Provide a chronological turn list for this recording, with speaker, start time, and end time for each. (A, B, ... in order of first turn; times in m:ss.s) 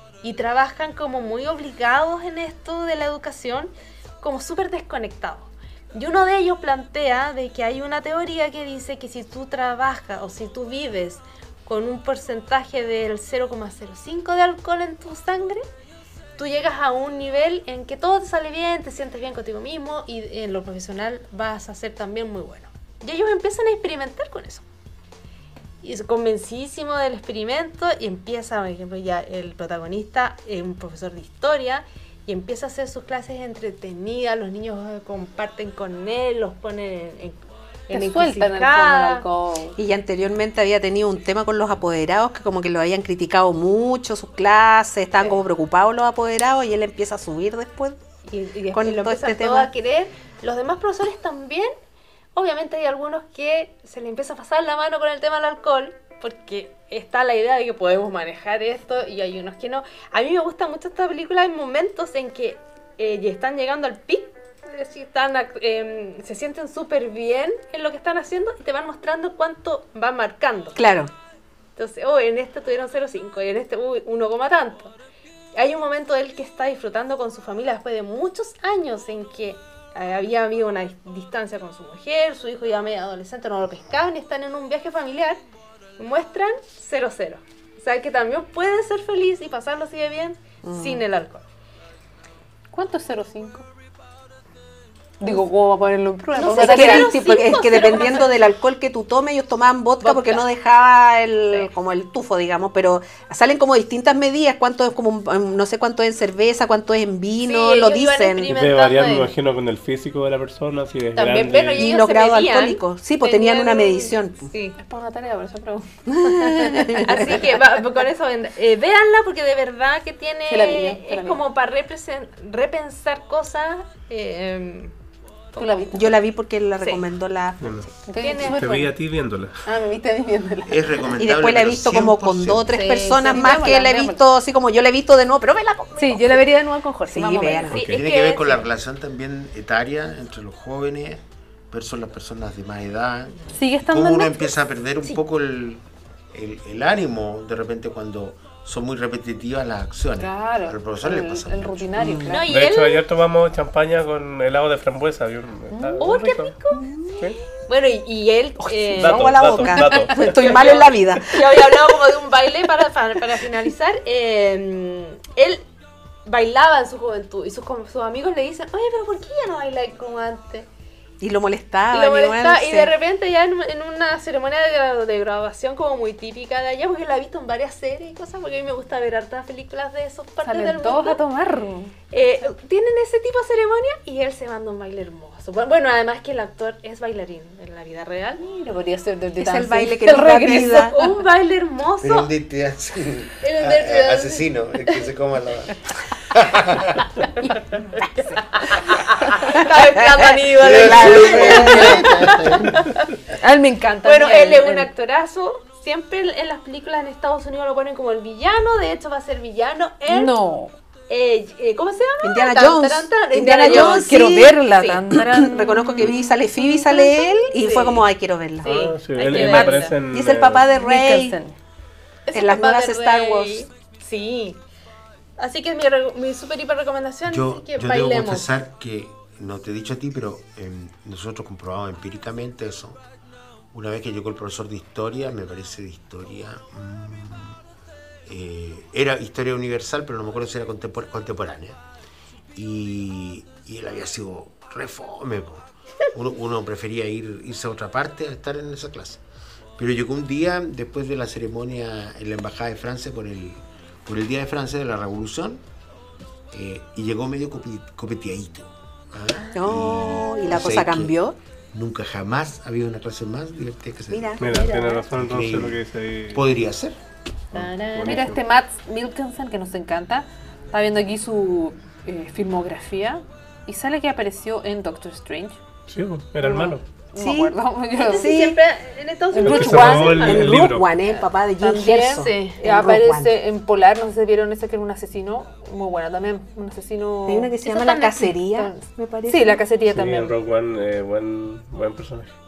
0:00.2-0:15.6 A
0:16.4-0:24.6 A
0:25.8-0:39.7 A
0:37.9-0:39.8 B
0:39.8-0:48.0 C
0:48.3-0:51.7 A
0:48.7-0:49.7 C
0:52.4-1:10.8 A
1:10.8-1:11.1 C
1:11.8-1:14.9 A
1:15.6-1:25.4 A
1:26.0-1:31.4 A
1:30.6-1:31.0 C
1:32.7-1:33.7 B
1:35.2-1:38.0 B
1:36.3-1:38.4 A
1:36.4-1:48.6 C
1:40.0-1:40.4 A
1:40.0-1:40.4 B
1:47.4-1:49.3 A
1:48.5-1:52.0 D
1:51.2-1:54.8 A
1:51.8-1:54.4 C
1:54.6-1:57.4 B
1:56.2-1:57.4 C
1:56.8-2:04.9 A
2:00.5-2:01.4 B
2:05.5-2:06.2 B
2:05.6-2:06.0 A
2:05.9-2:07.9 C
2:07.6-2:09.6 D
2:08.1-2:08.8 B
2:08.2-2:08.9 A
2:09.7-2:11.1 B
2:10.6-2:12.8 E
2:11.2-2:17.9 C
2:12.7-2:14.2 A
2:13.0-2:14.1 B
2:16.0-2:18.6 A
2:16.4-2:18.4 B
2:17.7-2:18.0 D
2:17.8-2:32.2 E
2:23.5-2:24.5 B
2:30.2-2:32.5 B
2:32.0-2:32.4 C
2:32.3-2:33.1 A
2:32.5-2:36.6 D
2:35.7-2:36.1 B
2:36.0-2:37.0 A
2:36.8-2:37.2 C
2:37.7-2:45.6 A
2:38.7-2:42.0 C
2:39.0-2:40.9 D
2:46.3-2:50.7 A
2:51.2-2:52.9 C
2:51.9-3:01.2 A
3:00.4-3:02.5 B
3:02.1-3:08.4 A
3:08.4-3:10.6 B
3:09.4-3:11.0 C
3:09.8-3:12.3 A
3:12.0-3:17.1 E
3:13.4-3:14.6 A
3:18.1-3:24.9 B
3:18.3-3:22.7 A
3:19.4-3:22.2 C
3:20.5-3:23.0 E
3:23.4-3:30.4 A
3:30.1-3:30.7 B
3:31.1-3:38.1 A
3:32.2-3:41.4 C
3:33.5-3:36.1 B
3:37.6-3:37.9 B
3:38.6-3:40.7 D
3:39.2-3:39.9 B
3:39.2-3:39.9 A
3:40.7-3:41.6 B
3:42.3-3:44.6 A
3:42.3-3:43.7 C
3:45.4-3:48.5 A
3:47.3-3:53.0 E
3:53.7-3:57.6 E
3:58.3-4:01.8 E
4:02.5-4:09.2 E
4:09.8-4:15.6 E
4:16.5-4:21.2 E
4:19.5-4:21.4 C
4:21.7-4:24.4 E
4:24.1-4:24.7 C
4:24.4-4:26.4 D
4:24.4-4:25.0 A
4:25.1-4:25.8 E
4:26.3-4:27.0 E
4:27.5-4:28.4 D
4:27.6-4:28.3 A
4:27.6-4:35.6 B
4:35.9-4:36.8 D
4:36.4-4:38.3 B
4:37.2-4:37.6 C
4:38.0-4:40.4 A
4:38.1-4:38.6 C
4:39.3-4:40.6 B
4:39.4-4:40.9 D
4:39.5-4:43.3 C
4:41.6-4:50.4 B
4:42.1-4:42.6 A
4:47.3-4:49.7 C
4:47.7-4:48.3 A
4:49.9-4:52.3 D